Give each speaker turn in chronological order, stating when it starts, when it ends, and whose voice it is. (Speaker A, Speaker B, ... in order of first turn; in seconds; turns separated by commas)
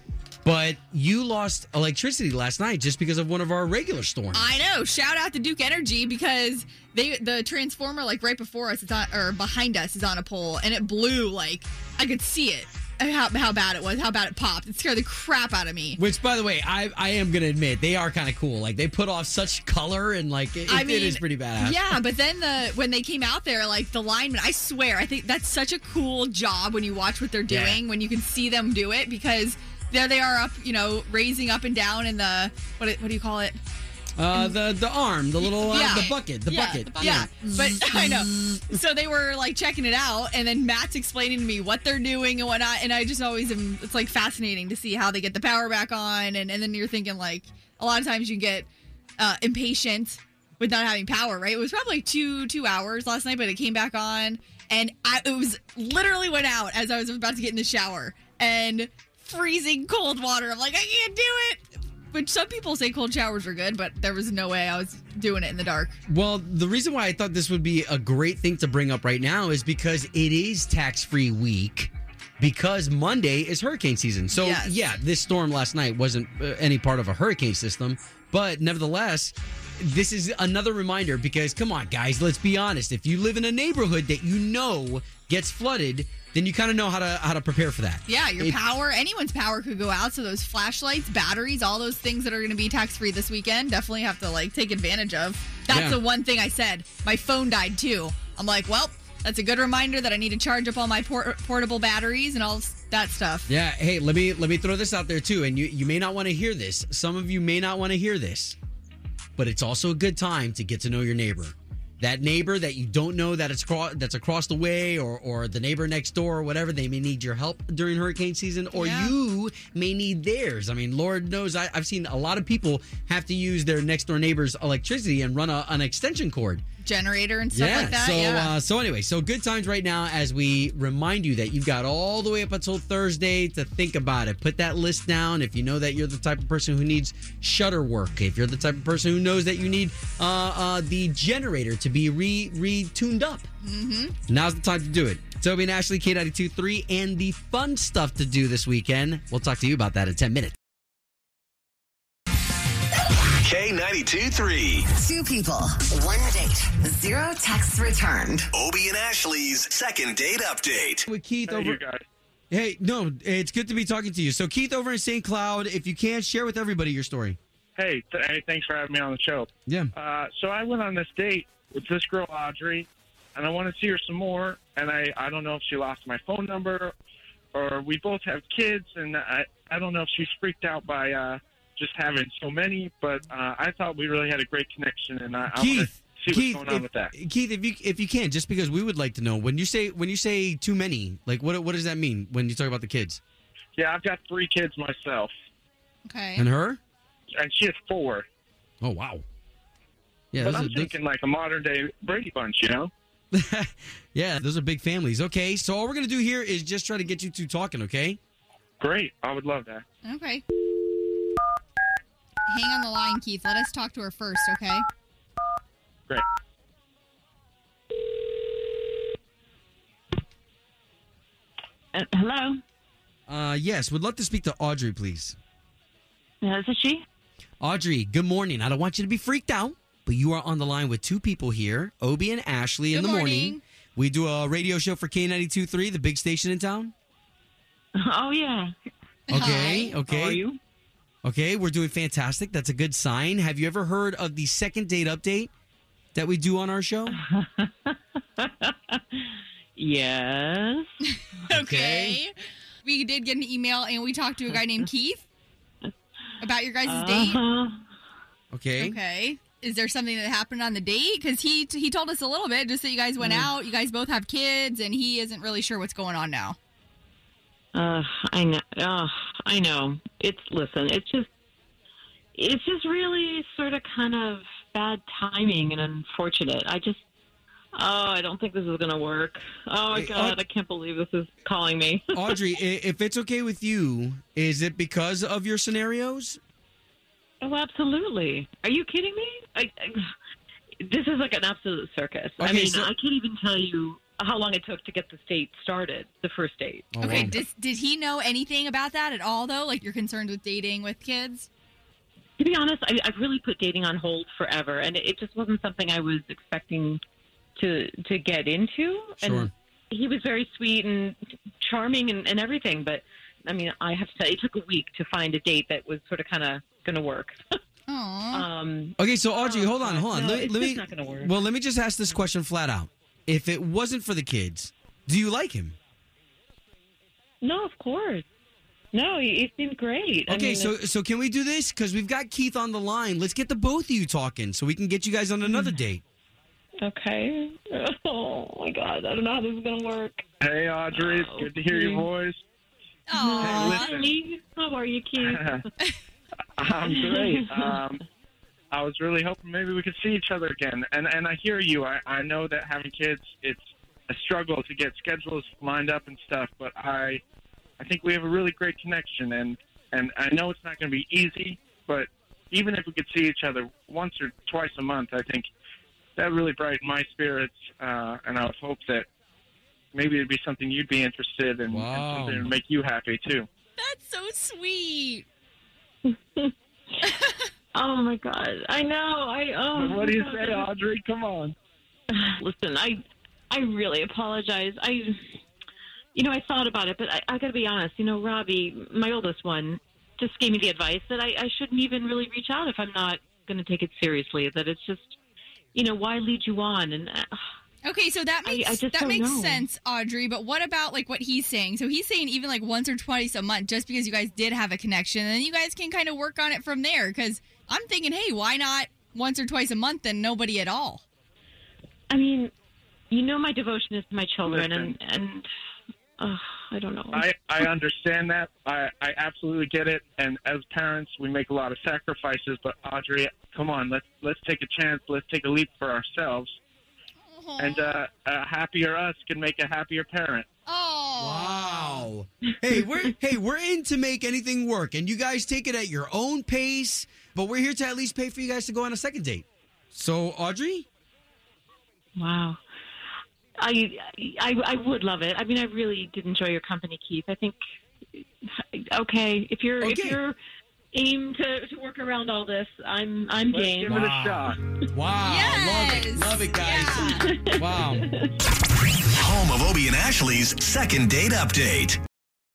Speaker A: 0.4-4.6, Speaker B: 4.3-16.0, Speaker A: 16.0-22.0, Speaker B: 20.7-33.6, Speaker A: 27.5-27.8, Speaker A: 34.2-38.5, Speaker B: 35.5-48.7, Speaker B: 49.2-66.0, Speaker A: 66.1-88.6, Speaker B: 74.3-74.7, Speaker B: 88.1-103.5, Speaker A: 95.7-96.0, Speaker A: 103.5-108.5, Speaker A: 109.4-126.6, Speaker B: 118.7-119.1, Speaker B: 126.8-128.5, Speaker A: 127.5-143.5, Speaker B: 143.6-144.1, Speaker A: 144.3-150.5, Speaker C: 153.4-154.8, Speaker D: 154.9-158.5, Speaker C: 158.5-161.0, Speaker A: 161.0-161.8, Speaker E: 161.5-162.0, Speaker A: 162.5-167.4, Speaker E: 167.8-176.9, Speaker A: 169.7-169.9, Speaker E: 177.5-187.1, Speaker A: 185.5-193.2, Speaker E: 193.8-195.3, Speaker B: 196.1-196.4, Speaker A: 196.4-196.8, Speaker E: 197.4-198.2, Speaker A: 198.8-199.2, Speaker A: 200.3-200.9, Speaker E: 200.4-202.9, Speaker A: 203.3-208.2, Speaker E: 208.8-209.8, Speaker B: 210.0-210.4, Speaker B: 212.5-214.8, Speaker F: 221.9-222.6, Speaker A: 223.3-225.3, Speaker F: 226.4-227.0, Speaker A: 227.6-236.9, Speaker B: 232.9-233.6, Speaker F: 237.9-238.7, Speaker B: 239.3-239.9, Speaker F: 239.3-240.6, Speaker A: 239.3-240.4, Speaker A: 241.2-245.5, Speaker A: 246.1-247.2, Speaker F: 247.1-250.9, Speaker B: 251.1-252.3, Speaker A: 251.5-252.2, Speaker B: 252.8-255.2, Speaker B: 256.4-257.4, Speaker F: 256.8-257.9, Speaker A: 258.5-259.0, Speaker B: 258.8-266.6, Speaker F: 263.2-263.5, Speaker F: 267.7-271.3, Speaker F: 272.3-277.0, Speaker F: 277.8-282.4, Speaker A: 279.9-280.4, Speaker A: 282.1-286.4, Speaker F: 287.4-290.0, Speaker F: 290.8-297.3, Speaker A: 292.4-292.9, Speaker A: 296.9-297.4, Speaker B: 297.0-301.5, Speaker F: 302.4-307.0, Speaker F: 307.6-317.4, Speaker A: 309.2-309.5, Speaker B: 317.9-318.4, Speaker F: 318.3-321.4, Speaker A: 319.0-325.8, Speaker F: 327.4-328.2, Speaker F: 328.9-330.7, Speaker A: 330.3-336.0, Speaker F: 335.4-335.7, Speaker F: 336.8-340.2, Speaker E: 340.4-342.4, Speaker F: 340.9-342.1, Speaker B: 343.1-343.9, Speaker F: 343.1-345.6, Speaker E: 343.4-344.1, Speaker E: 345.2-345.6, Speaker E: 346.6-348.0, Speaker F: 346.8-347.8, Speaker E: 348.7-357.2, Speaker E: 357.8-365.5, Speaker E: 366.1-369.1, Speaker E: 369.9-373.4, Speaker A: 371.7-372.5, Speaker B: 373.8-375.2, Speaker F: 376.1-376.5, Speaker B: 377.0-377.4, Speaker F: 377.7-380.7, Speaker E: 379.7-381.5, Speaker F: 382.1-385.4, Speaker F: 386.1-395.2, Speaker F: 395.7-397.5, Speaker B: 397.8-411.0, Speaker F: 398.4-399.6, Speaker F: 412.1-412.5, Speaker F: 413.1-415.4, Speaker E: 414.4-414.9, Speaker F: 416.2-417.7, Speaker E: 417.1-426.6, Speaker B: 427.3-428.0, Speaker E: 427.6-430.5, Speaker B: 430.6-432.0, Speaker A: 431.2-440.9, Speaker F: 442.2-442.6, Speaker F: 443.6-447.6, Speaker F: 448.1-450.4, Speaker A: 449.8-450.2, Speaker F: 450.9-454.1, Speaker E: 453.5-454.6, Speaker A: 453.9-458.1, Speaker B: 455.2-457.3, Speaker F: 457.2-458.3, Speaker C: 459.1-462.0